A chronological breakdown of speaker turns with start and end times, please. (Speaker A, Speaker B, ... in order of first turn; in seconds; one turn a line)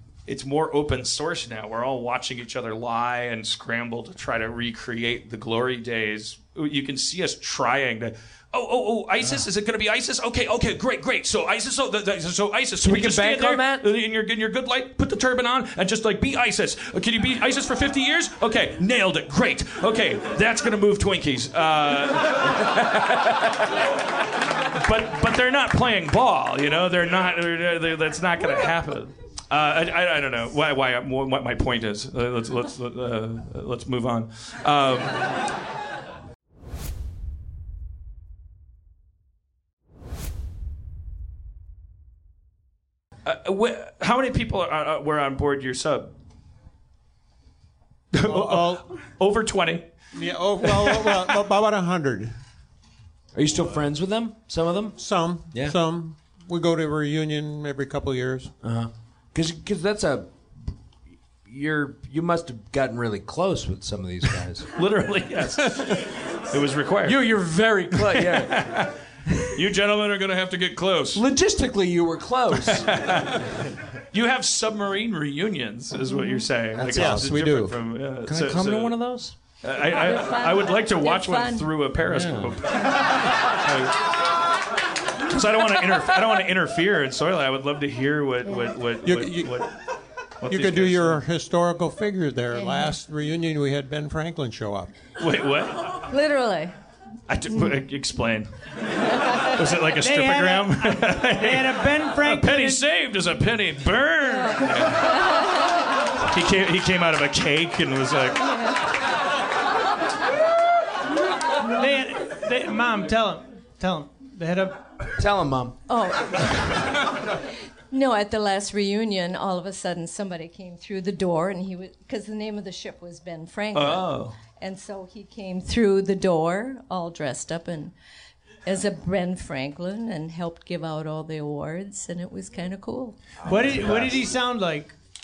Speaker A: 0.2-22.6
Speaker B: 12.8-13.8
Speaker A: 24.7-35.4
Speaker A: 43.2-46.1
Speaker A: 48.1-49.9
Speaker C: 48.2-48.8
Speaker C: 50.1-52.3
Speaker A: 50.6-51.4
Speaker B: 53.3-55.0
Speaker C: 55.0-58.5
Speaker B: 55.5-55.8
Speaker B: 58.6-60.3
Speaker B: 61.4-64.7
Speaker A: 64.8-67.3
Speaker B: 67.0-68.8
Speaker A: 67.9-68.9
Speaker A: 69.5-71.2
Speaker B: 71.1-73.1
Speaker A: 72.5-73.5
Speaker A: 74.1-79.0
Speaker C: 76.8-77.7
Speaker B: 76.9-77.3
Speaker B: 78.2-79.3
Speaker A: 79.6-84.0
Speaker D: 79.8-81.7
Speaker B: 82.0-82.5
Speaker A: 85.3-89.8
Speaker C: 89.0-89.6
Speaker A: 90.4-91.2
Speaker C: 90.5-94.9
Speaker D: 92.5-92.9
Speaker A: 95.2-96.0
Speaker D: 96.1-96.7
Speaker A: 97.3-98.5
Speaker A: 99.4-105.1
Speaker E: 100.0-102.8
Speaker D: 104.3-105.5
Speaker A: 106.2-108.7
Speaker E: 111.7-114.8
Speaker B: 115.2-115.8
Speaker D: 115.9-117.0
Speaker D: 117.9-127.9
Speaker A: 123.7-124.3
Speaker D: 128.7-133.2
Speaker E: 133.4-134.9
Speaker B: 133.4-134.1